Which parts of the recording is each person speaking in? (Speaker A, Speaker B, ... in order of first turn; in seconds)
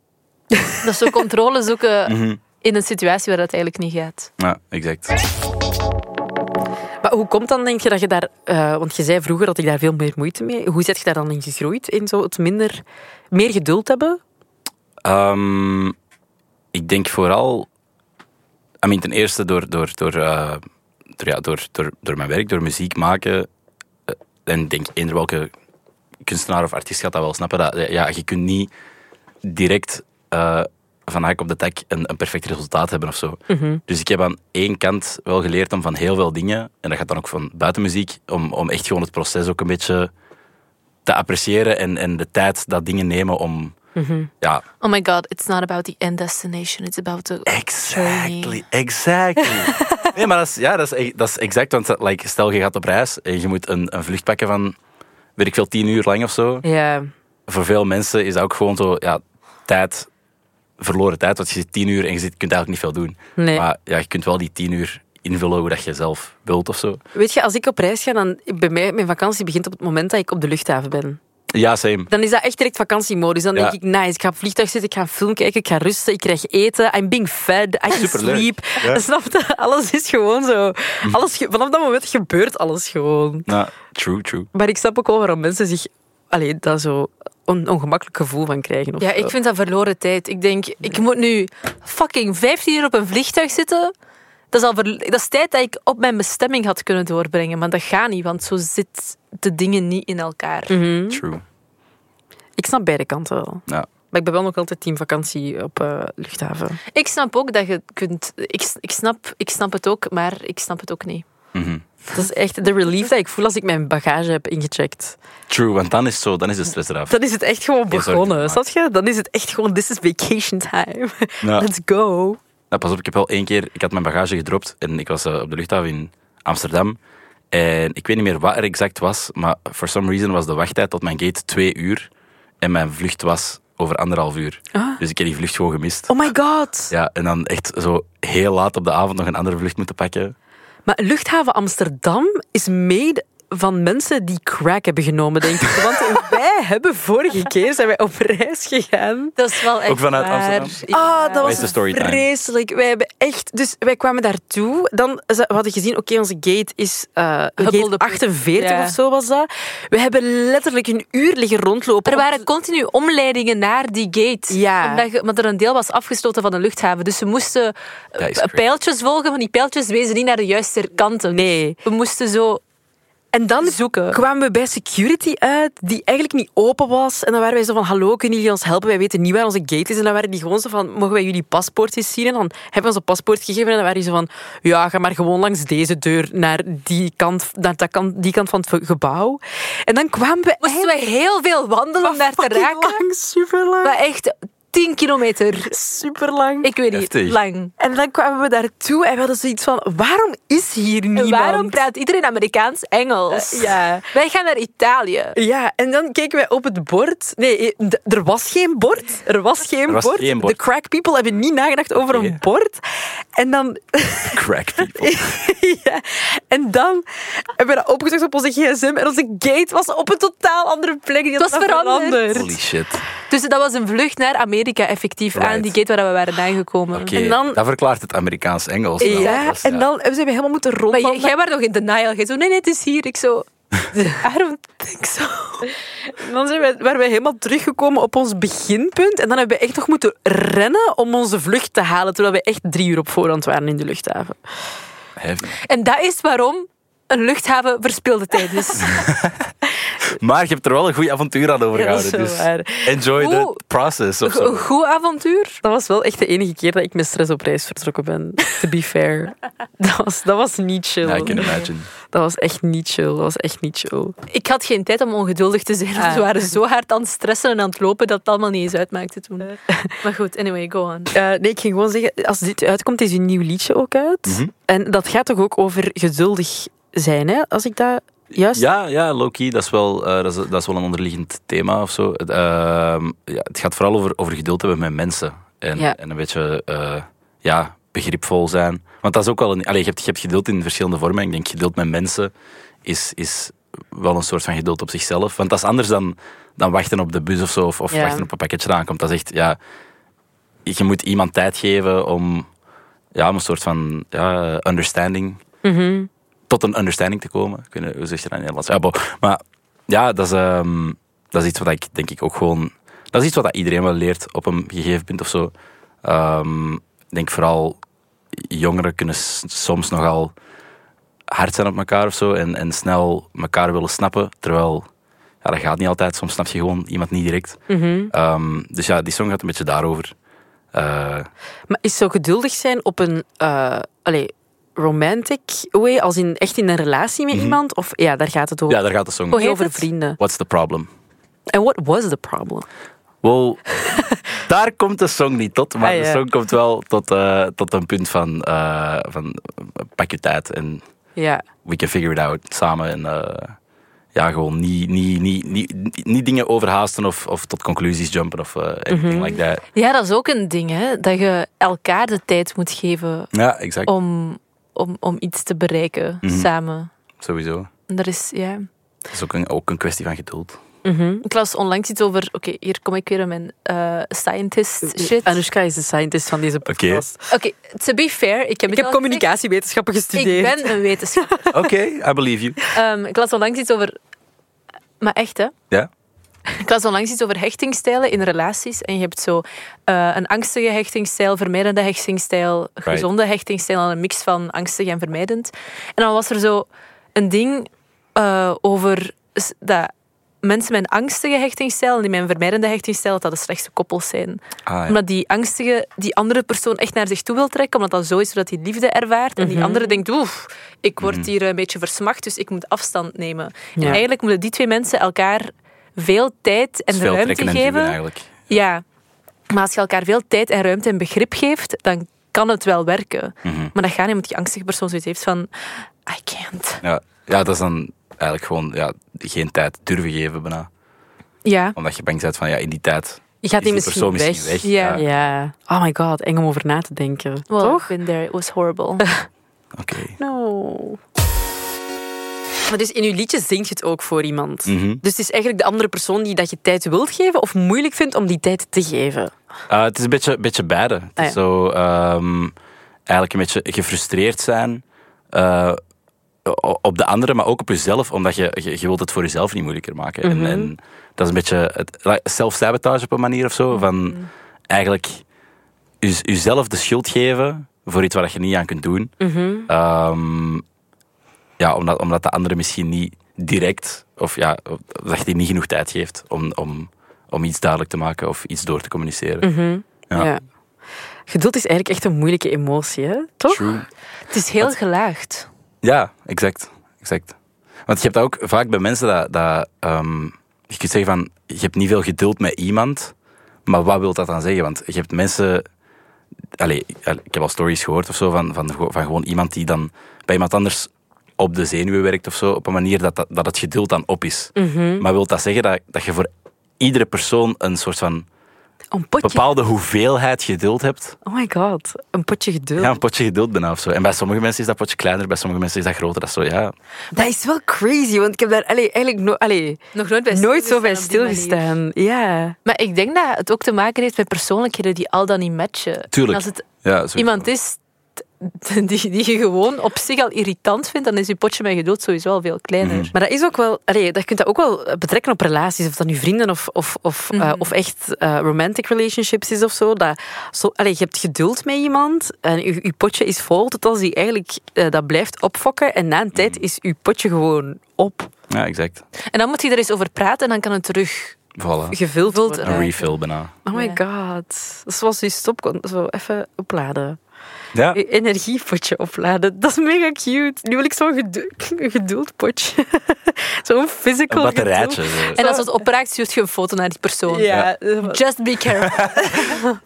Speaker A: 0.8-4.3, 44.8-48.6, 89.0-93.9, 94.5-100.8, 106.9-111.2, 149.4-151.7, 157.6-159.0, 162.1-172.6, 173.6-174.2, 190.6-193.0, 193.8-195.8, 196.6-197.7, 201.2-205.4, 221.4-222.5, 223.3-227.2, 229.0-229.4, 230.9-235.7, 245.6-249.0, 253.2-253.6, 254.3-255.6, 261.3-261.7, 264.3-271.1, 339.3-339.9, 359.7-363.3, 363.9-366.9, 367.9-368.7, 371.2-375.4, 377.3-379.3, 380.1-381.5, 382.7-383.9, 385.0-385.5, 386.5-399.9, 400.4-418.0, 418.5-418.8, 419.5-425.5, 426.1-426.8, 431.4-431.8, 434.6-435.0, 437.5-439.1, 484.3-485.5, 520.0-521.7, 522.7-533.1, 537.3-537.7, 549.3-551.4, 552.2-553.0, 553.7-554.0, 565.4-569.6
Speaker B: 2.1-2.4, 4.4-5.2, 15.0-16.0, 16.7-17.7, 18.8-20.6, 21.2-23.5, 24.1-25.5, 26.2-28.7, 29.4-40.1, 41.1-43.8, 47.5-54.8, 55.4-56.7, 57.5-60.1, 60.8-67.0, 71.5-72.1, 77.9-79.0, 83.5-84.5, 101.1-101.4, 111.5-111.8, 115.5-117.2, 117.9-118.6, 121.4-121.7, 122.7-127.0, 127.5-132.1, 132.6-136.2, 136.9-140.3, 149.9-150.8, 151.4-152.2, 168.2-168.6, 196.9-197.4, 209.9-210.6, 212.1-212.4, 214.3-215.4, 222.3-223.1, 225.3-225.7, 226.9-229.9, 245.2-245.6, 248.8-249.5, 250.1-254.7, 261.0-261.9, 274.3-274.5, 278.5-292.3, 292.9-299.6, 300.7-302.5, 303.1-305.4, 306.5-315.5, 316.0-317.8, 318.3-320.3, 321.3-324.9, 325.4-330.1, 330.7-331.3, 337.3-337.6, 338.7-339.5, 340.2-340.9, 343.2-350.8, 351.6-353.6, 354.1-359.6, 363.3-363.9, 366.2-366.5, 367.2-367.7, 369.1-370.6, 376.7-377.0, 381.5-382.6, 404.7-405.0, 411.0-411.3, 416.9-418.5, 423.4-423.7, 426.8-430.7, 431.8-435.1, 439.8-440.2, 444.7-445.0, 449.7-452.5, 453.1-455.8, 456.4-465.2, 466.0-469.1, 469.7-470.6, 471.6-479.5, 483.5-483.9, 485.8-487.4, 487.9-493.1, 493.7-495.7, 496.6-506.3, 506.8-508.3, 509.2-511.2, 512.8-516.7, 526.1-527.5, 532.8-533.1, 546.4-546.6, 548.5-549.0, 551.6-552.0, 552.6-553.6, 557.7-558.0, 564.3-565.4, 568.8-569.1
Speaker C: 7.0-14.2, 33.5-33.8, 44.0-44.3, 49.5-50.0, 56.6-57.1, 63.4-63.6, 67.2-71.2, 72.1-83.5, 84.5-89.3, 100.7-101.3, 102.6-106.8, 112.1-115.2, 117.1-122.4, 134.7-135.0, 136.1-136.9, 140.9-149.3, 150.9-162.4, 164.5-165.1, 171.3-171.8, 173.3-190.9, 192.0-194.0, 195.7-196.7, 197.8-201.8, 203.3-204.1, 205.4-222.5, 227.1-227.6, 229.0-231.3, 236.1-244.4, 251.7-253.0, 255.6-264.1, 266.0-266.4, 269.7-269.9, 271.1-278.7, 297.9-298.3, 305.6-306.1, 327.7-328.1, 331.7-338.8, 339.3-340.2, 341.5-342.7, 345.8-346.2, 351.2-351.5, 358.9-359.4, 370.8-371.2, 374.8-377.2, 378.7-381.5, 409.4-410.0, 413.8-414.0, 433.4-437.9, 440.2-441.0, 442.7-449.3, 460.2-460.7, 469.2-469.7, 479.4-480.4, 481.3-483.7, 504.6-505.1, 508.9-509.5, 511.2-513.0, 517.1-522.6, 533.1-548.3, 551.9-553.1, 553.7-557.2, 557.9-565.7, 567.3-568.2, 569.2-569.7